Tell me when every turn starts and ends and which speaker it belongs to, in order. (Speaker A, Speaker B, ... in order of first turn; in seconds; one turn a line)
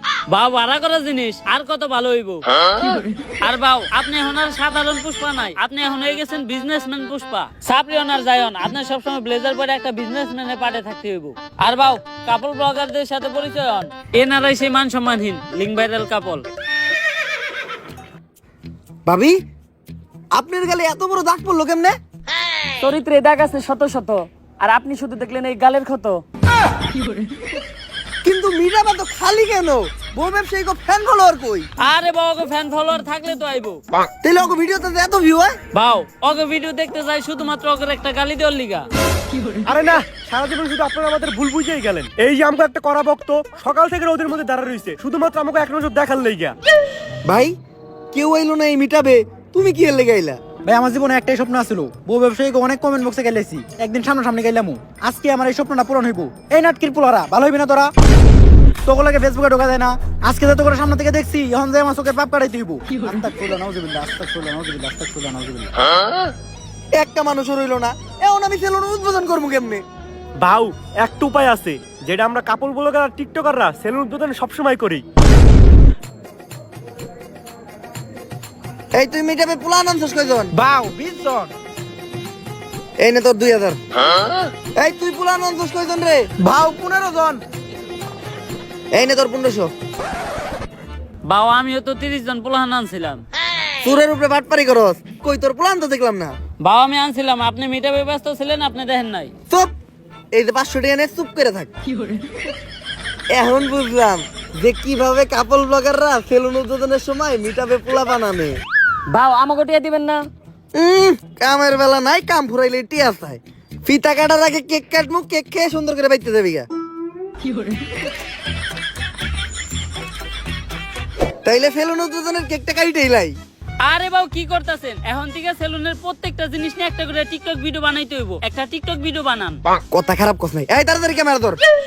Speaker A: 0.3-16.5
Speaker B: 19.1-19.4
Speaker B: 20.3-21.9
Speaker C: 22.8-26.2
Speaker B: 28.2-31.7
Speaker A: 31.8-33.8
Speaker B: 34.2-35.5
Speaker A: 35.7-38.9
Speaker D: 39.6-46.5
Speaker B: 47.2-47.5
Speaker B: 48.1-50.4
Speaker E: 50.6-57.9
Speaker E: 58.9-65.7
Speaker B: 67.0-69.8
Speaker D: 70.4-75.0
Speaker B: 78.9-80.5
Speaker E: 80.6-81.5
Speaker B: 83.0-83.8
Speaker B: 84.8-87.4
Speaker B: 88.9-89.7
Speaker A: 91.2-93.2
Speaker B: 93.8-96.3
Speaker A: 96.6-99.3
Speaker B: 100.3-101.7
Speaker B: 103.3-108.6
Speaker C: 109.1-110.3
Speaker B: 110.7-116.7
Speaker B: 121.4-123.3
Speaker A: 123.8-129.6
Speaker B: 129.9-131.6